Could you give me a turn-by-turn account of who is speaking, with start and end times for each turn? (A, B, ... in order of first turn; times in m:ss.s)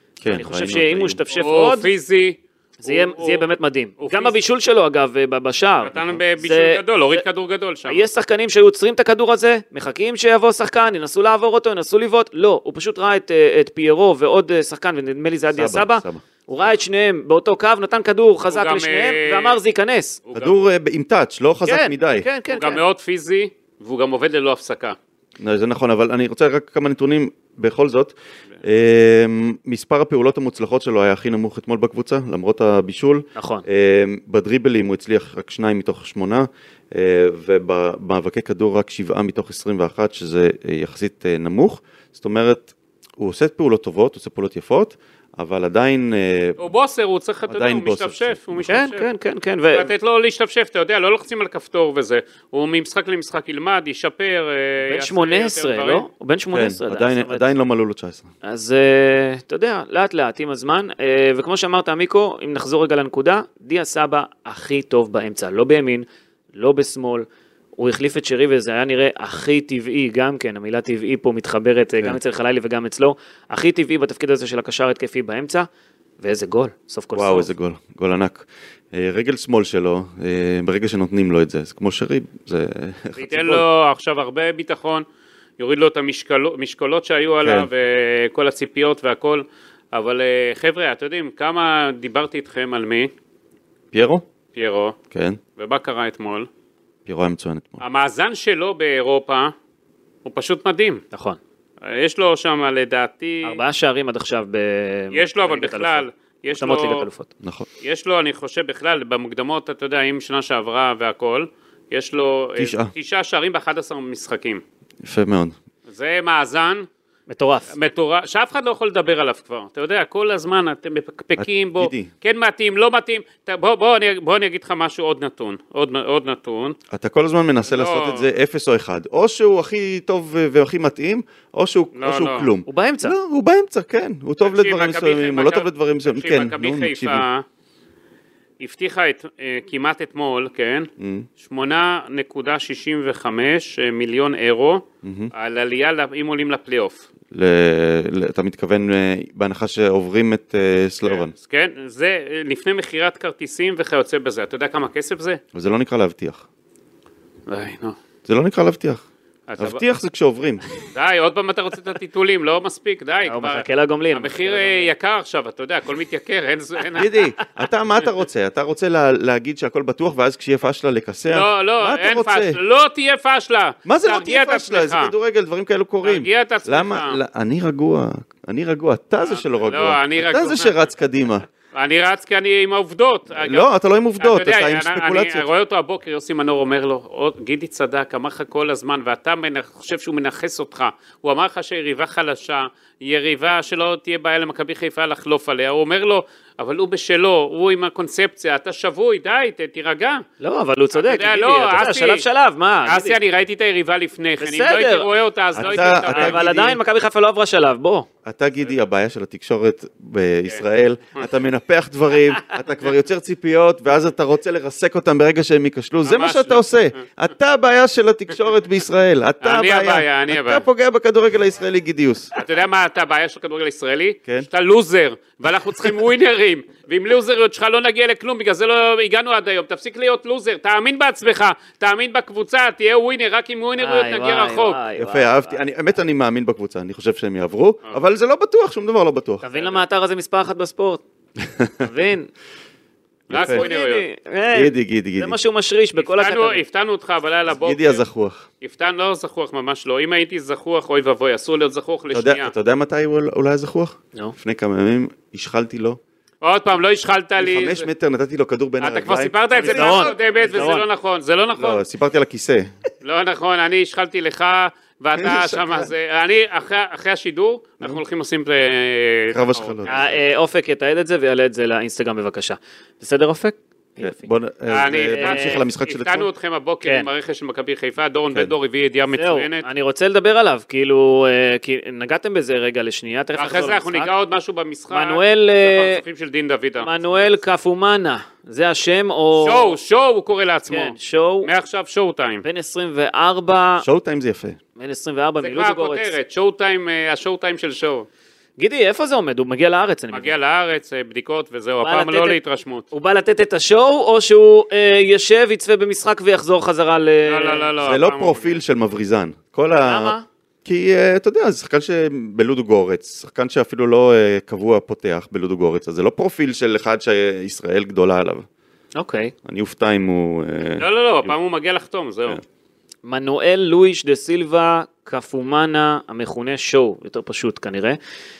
0:00.2-0:01.2 A
0:00.3-0:01.9 B
0:01.3-0:03.4 C
0:02.8-0:07.2 B
0:04.0-0:04.4 C
0:05.8-0:08.0 C
0:07.9-0:20.2 B
0:15.5-0:16.2 A
0:18.5-0:19.6 C
0:20.2-0:20.6 C
0:20.3-0:22.2 A
0:21.6-0:22.8 B
0:22.5-0:25.0 C
0:25.4-0:46.7 A
0:33.4-0:33.6 B
0:46.6-0:49.0 C
0:47.5-0:48.8 A
0:48.6-0:49.9 B
0:49.7-0:56.0 C
0:54.8-0:57.5 B
0:56.5-0:58.3 A
0:58.4-1:07.2 B
1:07.8-1:15.7 B
1:16.2-1:17.5 B
1:17.1-1:23.6 A
1:23.2-1:25.0 C
1:25.6-1:33.1 C
1:27.4-1:27.7 A
1:33.9-1:34.2 A
1:34.5-1:35.0 C
1:35.1-1:35.4 A
1:35.6-1:36.5 C
1:37.0-1:37.8 A
1:37.8-1:39.5 C
1:40.2-1:41.0 C
1:41.1-1:41.4 B
1:41.8-1:43.6 C
1:43.4-1:46.0 B
1:45.1-1:47.0 C
1:46.6-1:47.3 B
1:47.8-1:54.6 C
1:52.6-1:52.9 A
1:55.0-1:55.5 A
1:55.9-1:56.9 C
1:57.3-1:57.7 B
1:57.7-2:06.8 C
2:01.4-2:02.1 A
2:06.9-2:17.2 A
2:07.7-2:08.2 C
2:12.0-2:12.5 C
2:12.7-2:13.1 B
2:14.4-2:17.4 C
2:18.6-2:20.9 C
2:21.0-2:21.3 A
2:21.4-2:27.0 C
2:25.0-2:25.3 A
2:27.3-2:31.3 A
2:31.1-2:35.4 C
2:35.5-2:36.4 A
2:37.5-2:38.0 C
2:38.2-2:39.0 A
2:39.5-2:39.8 C
2:39.6-2:40.6 A
2:40.9-2:47.2 C
2:43.2-2:44.9 B
2:47.0-2:52.6 A
2:51.3-2:55.1 C
2:53.8-3:01.4 A
2:56.0-2:57.2 C
2:59.2-3:00.8 C
3:01.7-3:03.7 C
3:03.3-3:05.4 A
3:04.2-3:20.2 C
3:20.4-3:23.2 B
3:20.9-3:22.2 C
3:22.8-3:26.4 C
3:24.4-3:25.1 B
3:25.5-3:26.8 A
3:25.6-3:28.1 B
3:28.2-3:42.3 A
3:36.0-3:37.0 C
3:39.4-3:40.6 C
3:42.3-3:54.8 C
3:53.8-3:55.6 B
3:55.0-3:59.4 A
3:59.4-4:01.0 B
4:01.4-4:01.8 A
4:01.8-4:02.3 B
4:03.3-4:03.6 A
4:03.3-4:04.0 C
4:03.3-4:06.6 B
4:04.5-4:05.4 A
4:06.0-4:08.0 C
4:07.5-4:08.5 A
4:08.6-4:12.5 C
4:12.1-4:16.0 A
4:16.4-4:17.9 C
4:17.4-4:20.1 A
4:18.8-4:21.8 C
4:19.6-4:20.8 B
4:21.6-4:22.7 A
4:23.0-4:30.1 C
4:25.1-4:25.9 A
4:29.3-4:30.0 A
4:29.8-4:34.2 B
4:34.0-4:36.3 A
4:34.7-4:39.7 C
4:35.0-4:35.6 B
4:36.8-4:37.1 B
4:39.1-4:44.1 B
4:43.4-4:46.9 C
4:44.9-4:46.0 B
4:46.8-4:49.7 B
4:49.4-4:52.4 C
4:50.7-4:51.5 B
4:52.4-4:53.8 B
4:53.8-4:54.6 A
4:54.8-4:56.1 B
4:55.4-4:58.1 C
4:58.6-5:00.3 B
5:00.1-5:02.8 C
5:01.8-5:02.4 B
5:02.9-5:07.7 B
5:07.2-5:08.6 C
5:07.8-5:18.4 A
5:09.8-5:10.2 B
5:19.0-5:19.3 B
5:19.4-5:21.3 A
5:20.8-5:22.4 C
5:23.0-5:28.0 B